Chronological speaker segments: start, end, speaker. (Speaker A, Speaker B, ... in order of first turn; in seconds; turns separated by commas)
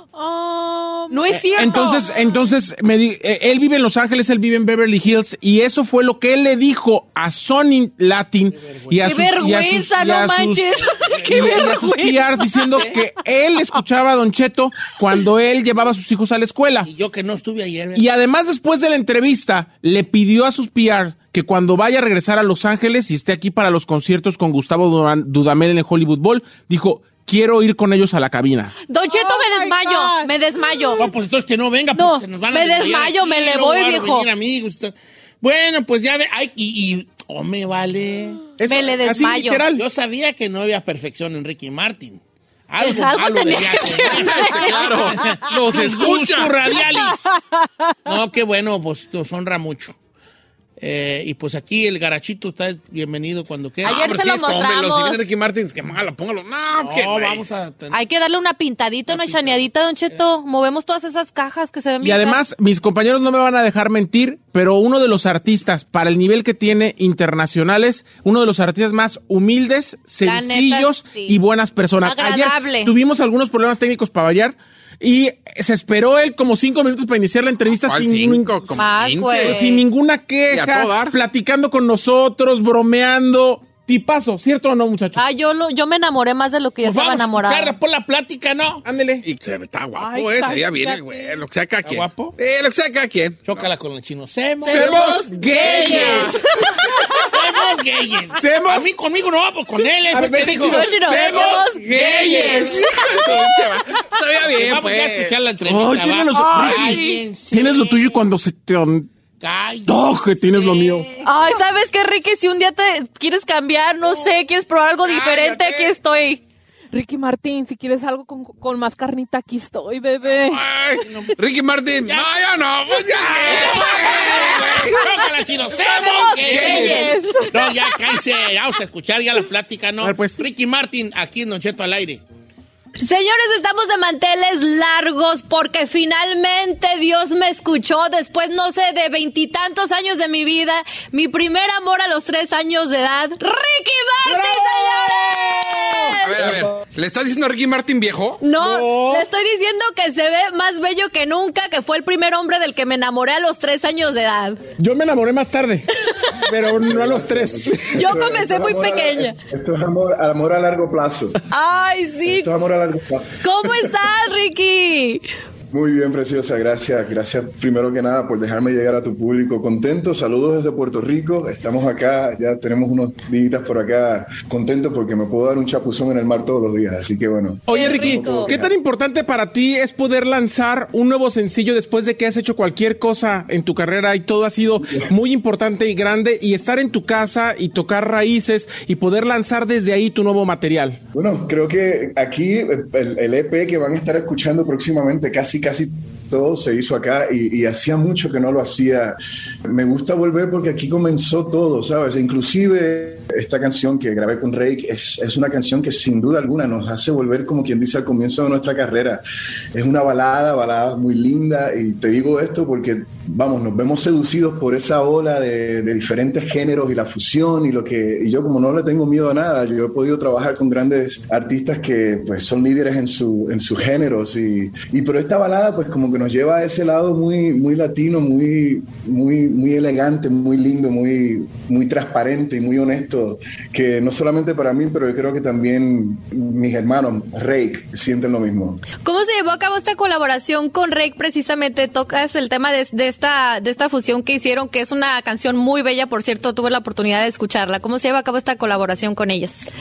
Speaker A: 0.1-1.2, Speaker B: 1.1-2.0, Speaker C: 1.3-16.9, Speaker A: 1.8-2.4, Speaker D: 8.5-9.2, Speaker B: 9.0-12.9, Speaker D: 10.9-11.6, Speaker D: 16.8-18.1, Speaker C: 17.9-28.8, Speaker B: 28.9-31.1, Speaker A: 29.0-31.1, Speaker D: 31.0-38.4, Speaker B: 31.9-34.3, Speaker C: 38.6-39.9, Speaker B: 38.6-39.6, Speaker D: 39.8-47.4, Speaker B: 42.8-44.8, Speaker E: 44.2-46.6, Speaker D: 48.1-50.0, Speaker D: 50.8-54.2, Speaker E: 53.8-57.6, Speaker B: 53.8-55.3, Speaker D: 56.8-58.0, Speaker B: 57.9-62.4, Speaker D: 59.1-59.7, Speaker C: 62.0-78.9, Speaker B: 70.2-71.4, Speaker B: 72.0-72.9, Speaker E: 77.8-79.7, Speaker B: 78.8-79.8, Speaker C: 79.4-85.2, Speaker E: 80.5-81.2, Speaker B: 85.2-87.8, Speaker D: 86.8-88.8, Speaker C: 88.8-89.2, Speaker E: 89.2-93.7, Speaker A: 90.0-91.4, Speaker D: 91.8-92.4, Speaker D: 93.5-95.0, Speaker B: 94.6-97.1, Speaker C: 94.7-96.4, Speaker E: 94.9-96.1, Speaker D: 95.6-96.4, Speaker D: 97.3-102.8, Speaker C: 98.3-98.9, Speaker C: 100.1-102.5, Speaker B: 100.7-101.9, Speaker E: 101.9-105.4, Speaker B: 103.0-103.5, Speaker D: 104.5-108.2, Speaker C: 105.7-109.1, Speaker B: 106.4-107.2, Speaker D: 109.4-111.3, Speaker C: 109.9-111.1, Speaker B: 111.2-116.4, Speaker D: 114.0-114.3, Speaker E: 115.0-116.0, Speaker A: 116.9-121.3, Speaker E: 120.3-125.1, Speaker D: 123.1-132.2, Speaker B: 125.7-127.1, Speaker A: 126.4-128.2, Speaker C: 126.5-127.1, Speaker C: 130.0-130.4, Speaker B: 133.0-146.6, Speaker C: 144.2-146.7, Speaker E: 146.2-148.4, Speaker B: 148.4-154.6, Speaker C: 148.6-149.3, Speaker C: 154.8-158.1, Speaker F: 156.7-161.4, Speaker B: 157.9-159.3, Speaker B: 161.5-162.5, Speaker F: 162.2-163.9, Speaker B: 163.4-165.2, Speaker F: 165.7-178.7, Speaker C: 177.7-191.0, Speaker B: 177.7-178.6, Speaker F: 184.8-185.1, Speaker F: 191.1-209.2, Speaker F: 209.7-238.8, Speaker B: 239.0-249.7